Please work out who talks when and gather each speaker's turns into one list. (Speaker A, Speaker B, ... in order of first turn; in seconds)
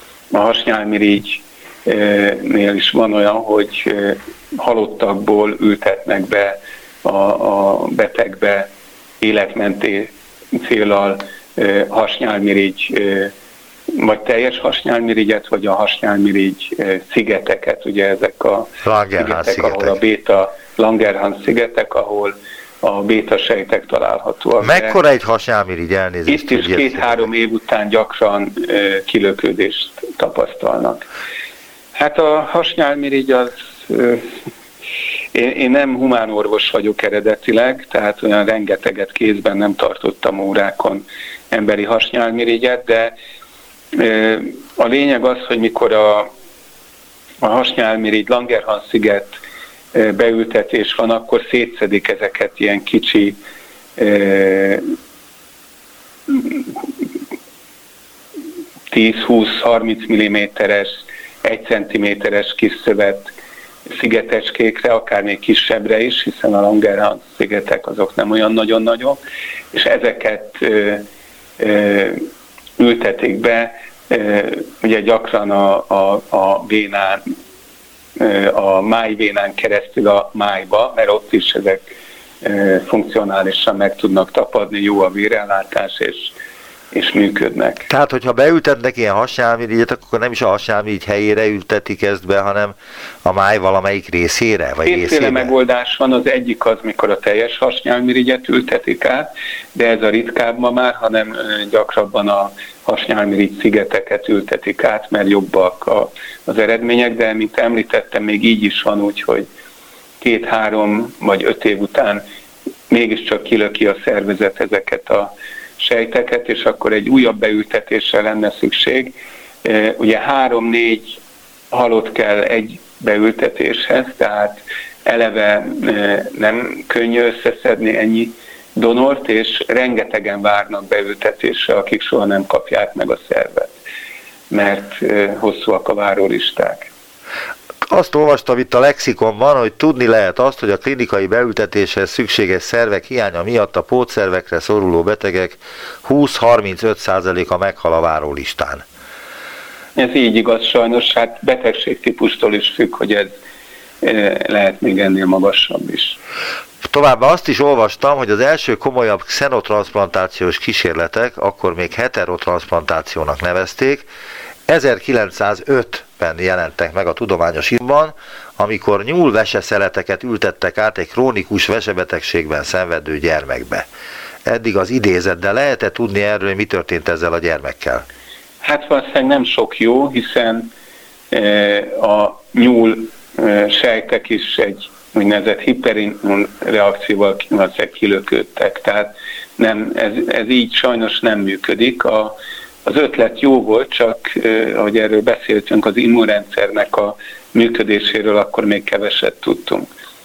Speaker A: 0.3-8.7, 9.2-13.3, 13.9-25.0, 26.3-31.1, 31.9-34.3, 35.3-43.1, 43.9-46.3, 47.4-49.4, 49.9-53.4, 54.0-54.8, 56.3-56.6, 58.9-63.3, 63.9-69.2, 69.7-71.1, 71.6-72.2, 72.8-77.2, 78.2-81.8, 82.4-86.3, 86.9-87.9, 94.9-109.5, 110.2-112.2, 112.9-119.1, 119.6-121.2, 121.7-133.8, 134.5-136.9, 150.0-153.3, 154.0-156.2, 178.6-180.7, 181.3-199.9
Speaker B: 18.8-20.0, 24.6-27.3, 87.9-95.5, 137.9-148.8, 156.8-164.1, 164.7-173.9, 174.4-178.1